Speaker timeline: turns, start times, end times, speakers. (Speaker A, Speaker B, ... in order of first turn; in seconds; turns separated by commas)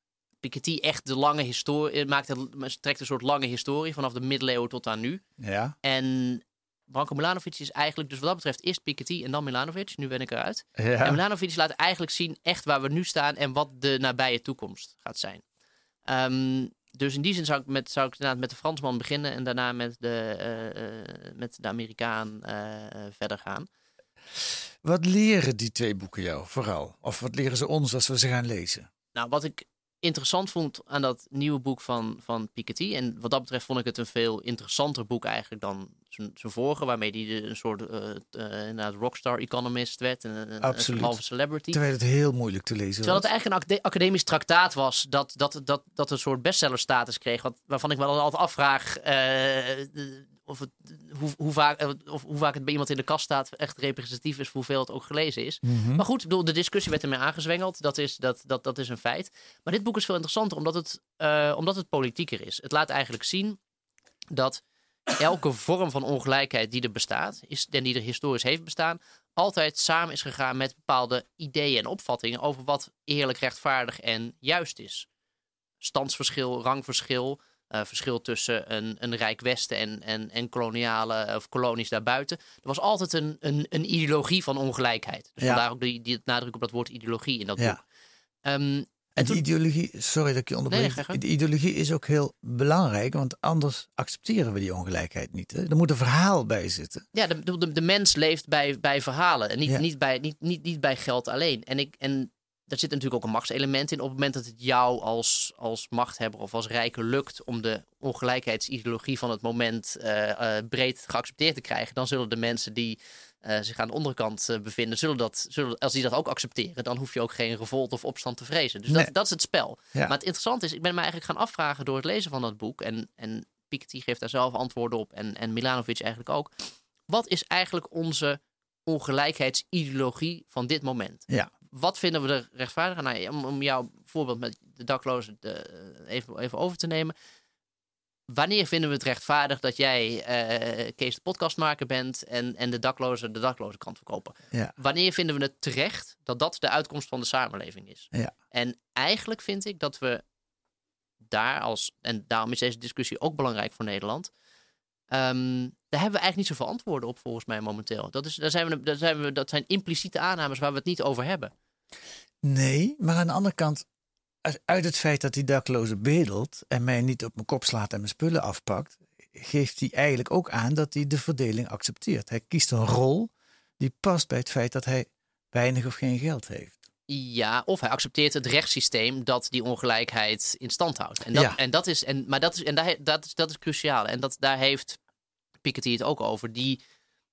Speaker A: 0.4-5.2, Speaker B: 5.4-5.8, Speaker A: 5.8-15.4, Speaker B: 10.8-11.2, Speaker A: 16.1-23.7, Speaker B: 24.8-28.9, Speaker A: 29.1-41.8, Speaker B: 40.6-41.2, Speaker B: 41.7-43.3, Speaker A: 43.0-63.6, Speaker B: 55.6-56.0, Speaker A: 64.3-64.6, Speaker A: 65.1-75.1, Speaker A: 75.8-87.8, Speaker A: 88.5-89.4, Speaker B: 89.2-97.0, Speaker A: 90.7-91.2, Speaker A: 97.1-126.5, Speaker A: 127.1-137.1, Speaker A: 138.3-150.2, Speaker A: 151.2-154.3, Speaker A: 155.1-161.5, Speaker B: 162.4-163.9, Speaker B: 164.4-176.8, Speaker A: 177.1-185.0, Speaker A: 185.6-186.8